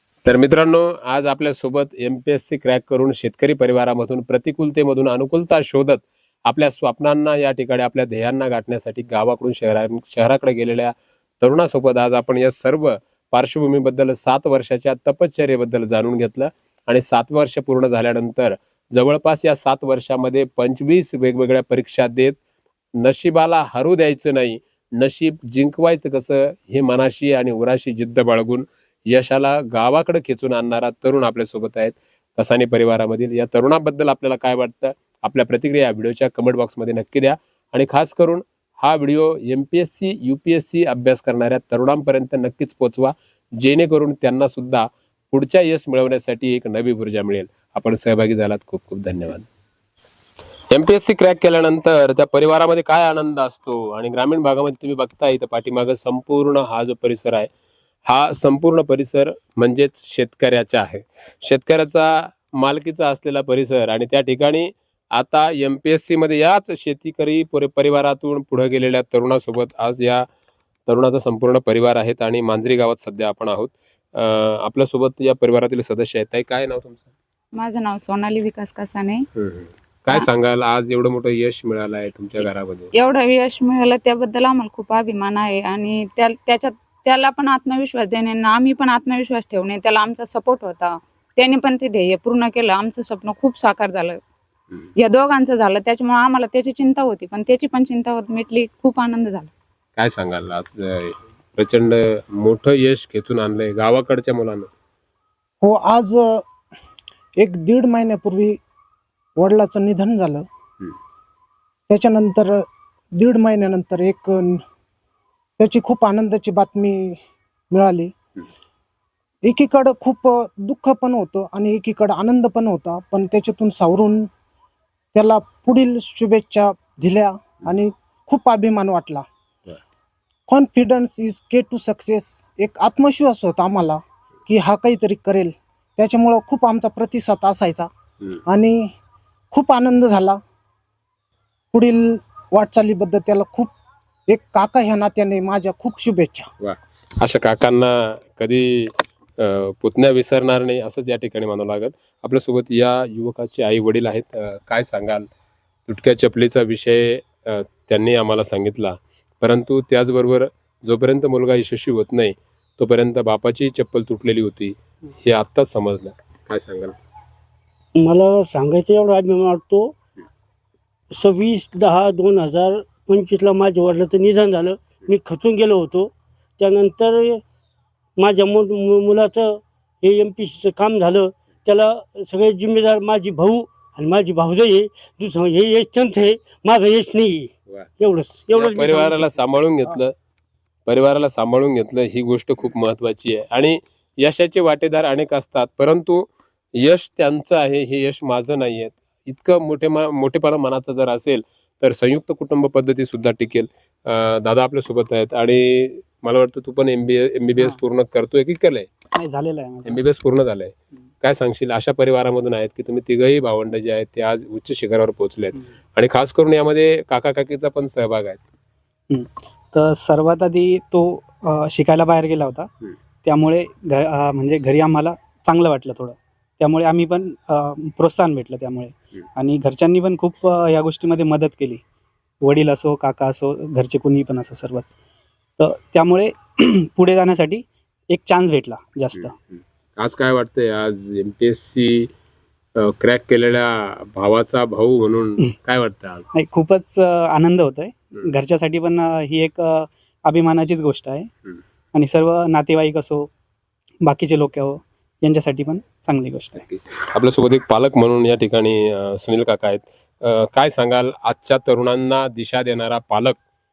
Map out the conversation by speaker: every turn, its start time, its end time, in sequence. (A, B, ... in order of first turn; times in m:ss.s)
0:00.2-0:22.4 A
0:23.0-0:49.5 A
0:50.7-0:57.5 A
0:58.1-1:10.3 A
1:10.9-1:17.1 A
1:17.5-1:19.3 B
1:19.4-1:22.9 A
1:23.0-1:34.2 B
1:35.0-1:39.5 B
1:40.0-1:44.7 A
1:45.6-1:46.5 C
1:47.4-1:48.6 C
1:49.4-1:50.5 C
1:51.9-1:54.6 C
1:55.6-1:57.2 C
1:57.7-1:58.1 C
1:59.4-2:04.3 C
2:05.1-2:09.3 C
2:10.5-2:17.9 C
2:18.5-2:18.9 C
2:19.5-2:20.4 C
2:21.7-2:23.7 C
2:24.3-2:26.5 C
2:26.6-2:35.3 A
2:35.9-2:47.0 A
2:48.0-2:49.9 D
2:51.1-2:57.4 D
2:58.2-3:09.4 D
3:08.5-3:10.1 A
3:10.9-3:28.9 A
3:29.2-3:30.0 E
3:29.8-3:38.4 A
3:39.1-3:42.7 E
3:43.2-3:51.8 E
3:52.4-3:55.0 E
3:55.6-3:59.3 E
3:59.1-4:02.1 A
4:02.8-4:06.3 A
4:06.3-4:11.3 E
4:11.9-4:13.3 E
4:14.0-4:16.6 E
4:16.6-4:23.4 A